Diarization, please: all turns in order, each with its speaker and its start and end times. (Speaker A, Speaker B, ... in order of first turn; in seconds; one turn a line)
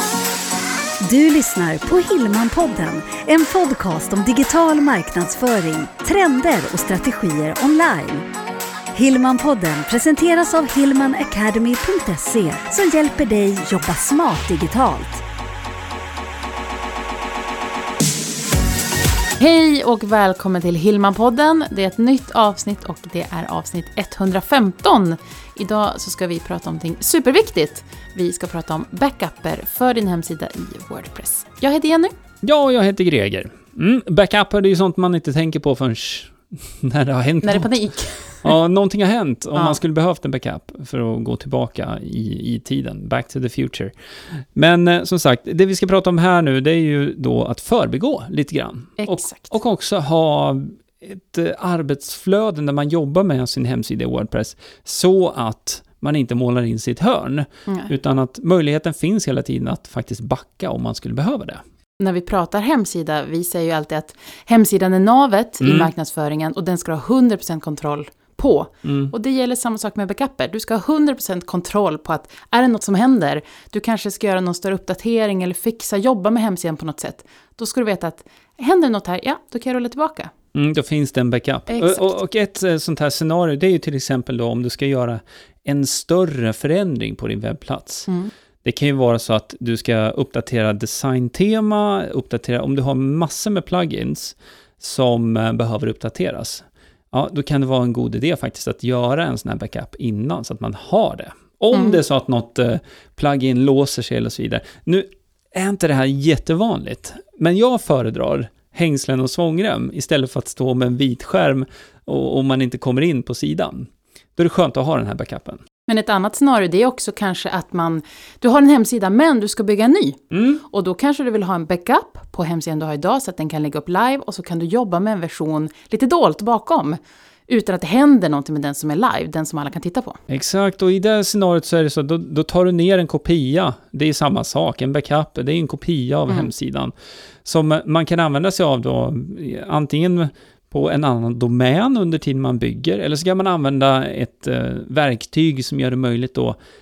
Speaker A: 1.0-8.3
Speaker A: 8.9-15.2
Speaker B: 19.4-32.1
Speaker C: 32.4-37.7
Speaker B: 37.4-38.5
Speaker C: 38.4-43.9
Speaker C: 44.5-61.6
Speaker B: 49.0-49.5
Speaker B: 62.0-80.3
Speaker C: 65.6-65.9
Speaker C: 68.8-69.1
Speaker C: 80.5-88.1
Speaker B: 81.7-82.1
Speaker C: 88.6-115.6
Speaker B: 101.7-102.0
Speaker B: 115.9-130.2
Speaker C: 120.3-120.6
Speaker C: 130.3-136.9
Speaker C: 137.4-146.6